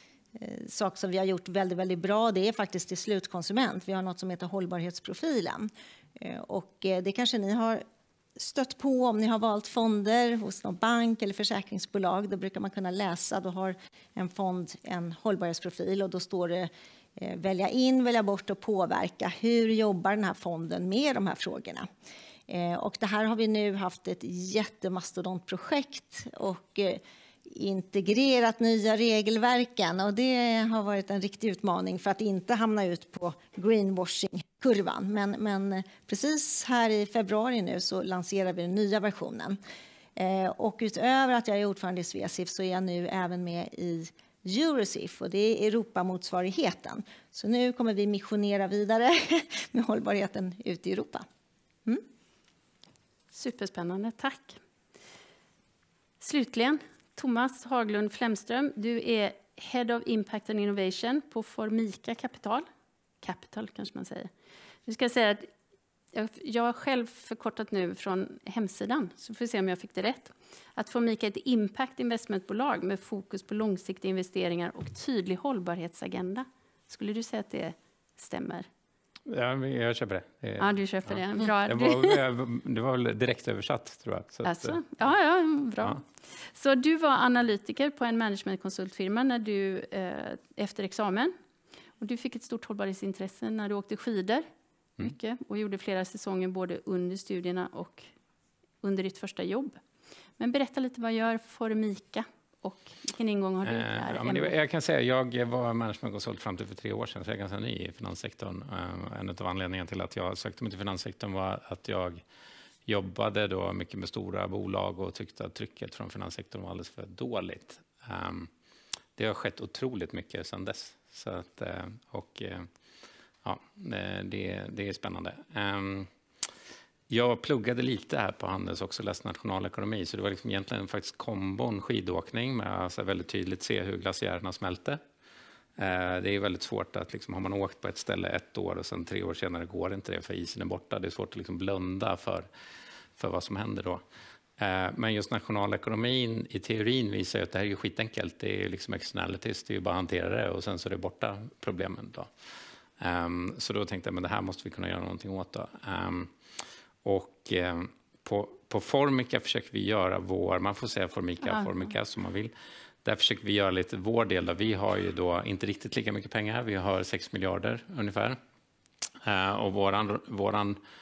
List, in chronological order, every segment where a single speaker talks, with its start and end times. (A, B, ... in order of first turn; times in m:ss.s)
0:00.3-0:07.8 A
0:08.4-0:21.9 A
0:22.5-0:39.6 A
0:40.2-0:51.2 A
0:53.3-0:54.6 B
0:56.2-1:02.6 B
1:03.2-1:04.3 B
1:04.8-1:05.5 B
1:06.1-1:18.7 B
1:19.3-1:24.8 C
1:20.6-1:22.2 B
1:24.4-1:31.3 B
1:32.0-1:34.5 B
1:35.0-1:38.1 B
1:38.8-1:39.8 B
1:40.4-1:44.5 B
1:43.6-1:52.2 C
1:52.8-1:58.5 C
1:59.2-2:02.7 C
2:03.4-2:06.1 C
2:07.1-2:15.0 C
2:15.8-2:22.5 C
2:23.2-2:24.0 C
2:24.6-2:32.3 C
2:33.0-2:36.3 C
2:37.0-2:42.5 C
2:41.4-2:41.7 B
2:43.0-2:48.4 C
2:49.2-2:50.8 C